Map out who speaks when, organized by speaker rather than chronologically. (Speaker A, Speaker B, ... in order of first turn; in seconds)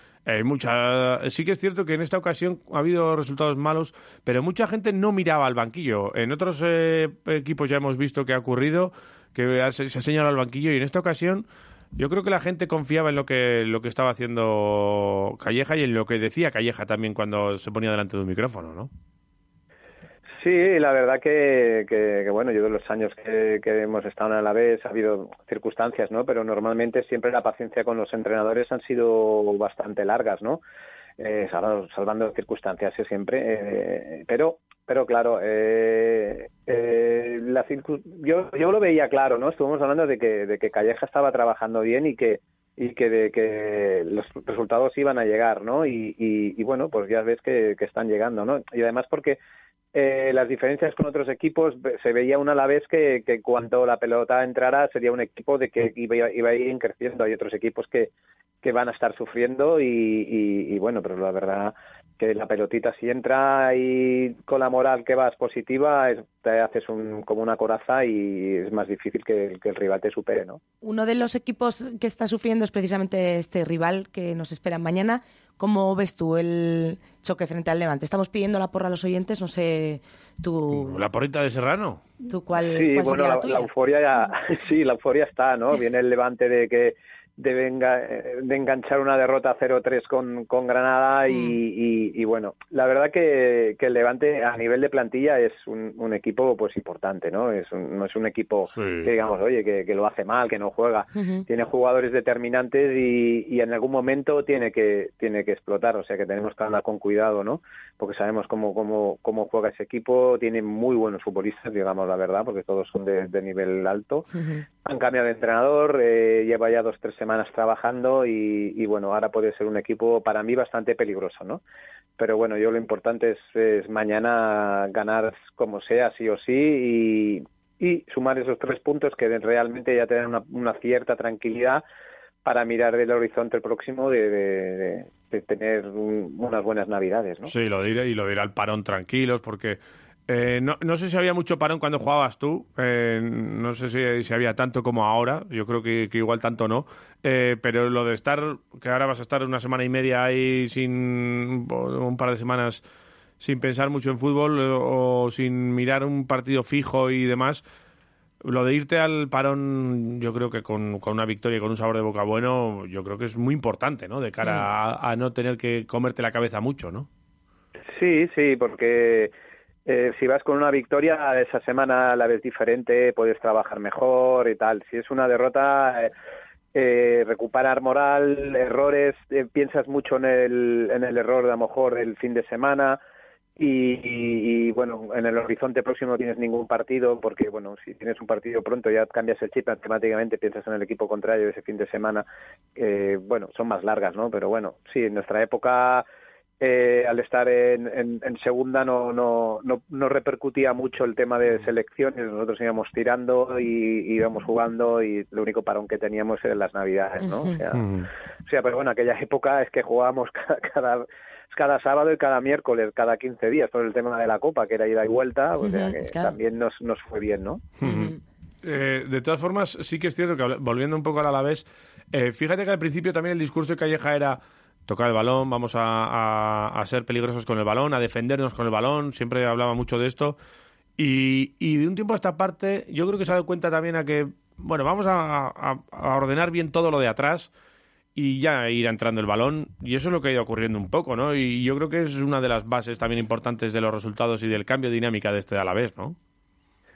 Speaker A: 0.2-18.9, 80.7-82.0, 98.7-99.1, 137.4-152.8, 153.4-157.6, 158.4-167.1, 207.7-208.1, 217.8-230.4, 231.0-237.5, 238.1-246.2
Speaker B: 20.4-30.6, 31.2-49.4, 49.9-58.1, 58.6-70.6, 82.5-114.3, 114.8-121.6, 122.2-131.8, 132.4-137.5, 167.9-169.3, 169.8-176.1, 176.7-183.0, 183.6-192.2, 192.8-196.0, 196.6-207.9, 208.4-217.7
Speaker C: 70.8-81.0, 82.2-83.7, 91.3-91.6, 101.2-101.4, 207.2-207.5, 215.6-216.3, 217.8-218.2